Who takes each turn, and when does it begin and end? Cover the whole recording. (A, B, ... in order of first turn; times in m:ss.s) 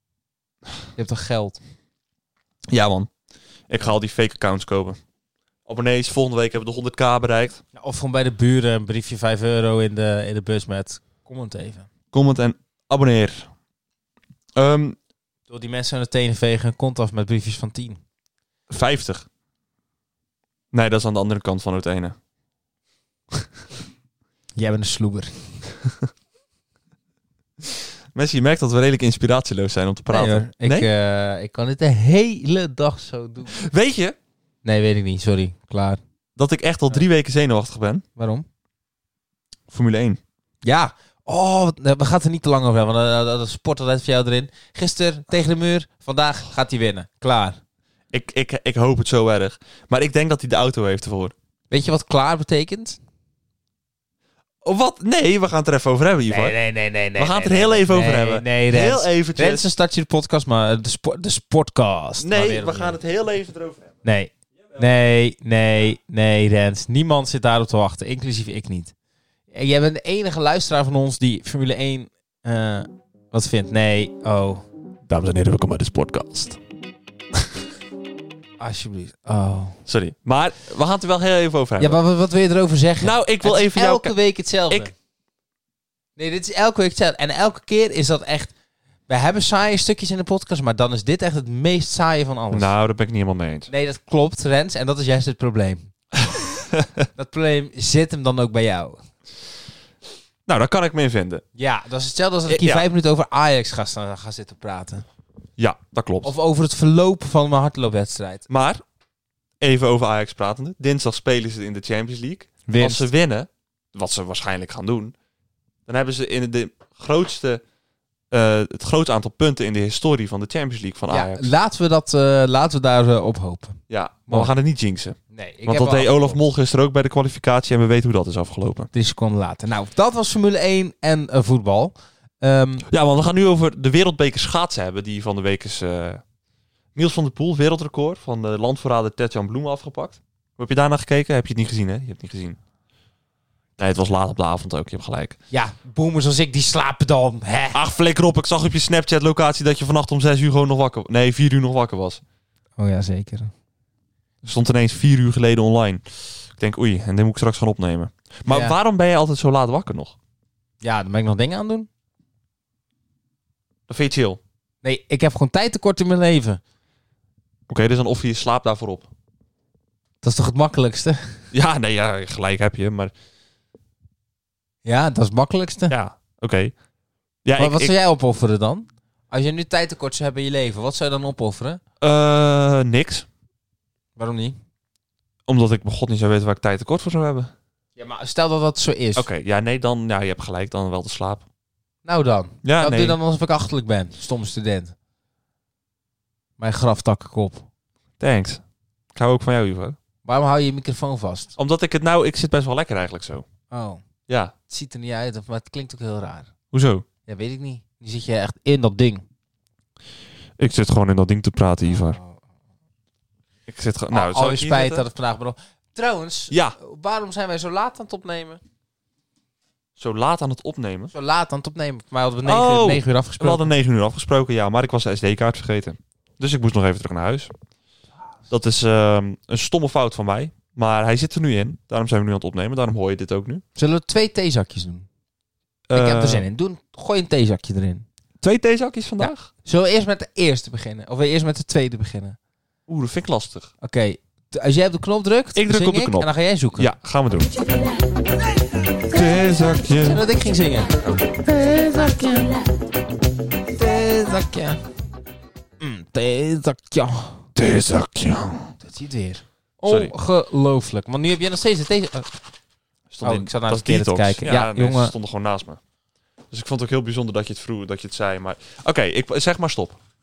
0:01.0-0:01.6 A
0:02.7-0:03.1 B
0:03.7-0:05.0 B
0:05.7-0:07.6 B
0:07.8-0:11.9 A
0:12.1-0:13.5 B
0:14.6-0:15.0 B
0:15.5-0:18.0 A
0:18.7-0:19.3 B
0:20.7-0:22.2 B
0:24.6-0:25.6 A
0:28.1-0:30.9 B
0:30.1-0:33.5 A
0:33.5-0:34.2 B
0:34.6-0:36.0 A
0:36.4-0:38.0 B
0:38.2-0:38.5 A
0:39.7-0:40.2 B
0:40.6-0:47.6 A
0:48.1-0:51.3 B
0:51.7-0:53.0 A
0:54.6-0:56.6 B
0:56.3-1:03.0 A
0:57.2-0:59.7 B
1:02.2-1:03.9 B
1:04.0-1:08.9 A
1:09.5-1:14.6 A
1:15.1-1:16.6 B
1:18.6-1:19.8 A
1:19.9-1:22.0 B
1:21.8-1:24.9 A
1:23.0-1:24.2 B
1:26.2-1:28.5 A
1:29.1-1:32.7 A
1:32.5-1:33.7 B
1:33.7-1:35.9 A
1:37.2-1:39.0 A
1:40.5-1:41.4 B
1:41.6-1:45.0 A
1:42.5-1:42.8 B
1:45.6-1:46.3 B
1:46.2-1:48.5 A
1:48.5-1:48.8 B
1:49.6-1:55.1 B
1:52.7-1:53.1 A
1:55.9-1:57.6 B
1:58.3-2:01.5 B
2:01.1-2:04.5 A
2:03.9-2:08.9 B
2:05.3-2:06.4 A
2:08.9-2:12.8 A
2:12.9-2:16.2 B
2:17.0-2:22.6 B
2:23.8-2:25.4 B
2:25.5-2:27.8 A
2:27.7-2:32.2 B
2:32.8-2:33.5 A
2:34.4-2:36.0 B
2:36.6-2:40.2 B
2:38.5-2:38.8 A
2:40.8-2:41.9 A
2:43.9-2:44.4 B
2:44.8-2:46.6 A
2:47.7-2:49.1 B
2:50.2-2:51.4 A
2:51.5-2:53.1 B
2:54.8-2:56.0 A
2:55.9-2:56.7 B
2:57.4-2:57.9 B
2:57.6-3:01.8 A
3:02.0-3:03.3 B
3:04.2-3:04.6 A
3:05.5-3:07.5 B
3:08.0-3:09.3 A
3:09.2-3:11.4 B
3:12.0-3:14.9 A
3:12.6-3:13.2 B
3:16.6-3:17.6 A
3:18.2-3:18.6 B
3:19.1-3:20.0 B
3:20.2-3:21.6 A
3:21.6-3:23.4 B
3:23.7-3:24.0 A
3:24.3-3:24.5 B
3:24.7-3:26.5 A
3:26.7-3:27.1 B
3:27.3-3:29.2 A
3:30.6-3:32.2 B
3:31.8-3:32.4 A
3:33.7-3:35.0 B
3:34.1-3:38.6 A
3:36.5-3:36.8 B
3:40.0-3:41.1 B
3:41.1-3:43.7 A
3:42.4-3:47.5 B
3:48.5-3:53.6 B
3:53.8-3:55.1 A
3:55.9-3:56.5 B
3:55.9-3:58.1 A
3:58.4-3:59.5 B
3:59.2-4:02.4 A
4:02.9-4:03.7 B
4:03.8-4:06.9 A
4:05.6-4:07.5 B
4:09.1-4:10.2 B
4:10.0-4:12.6 A
4:13.8-4:14.8 A
4:15.8-4:17.5 A
4:17.6-4:18.7 B
4:18.8-4:22.3 A
4:19.9-4:20.1 B
4:23.1-4:25.8 B
4:23.2-4:25.1 A
4:26.5-4:30.0 B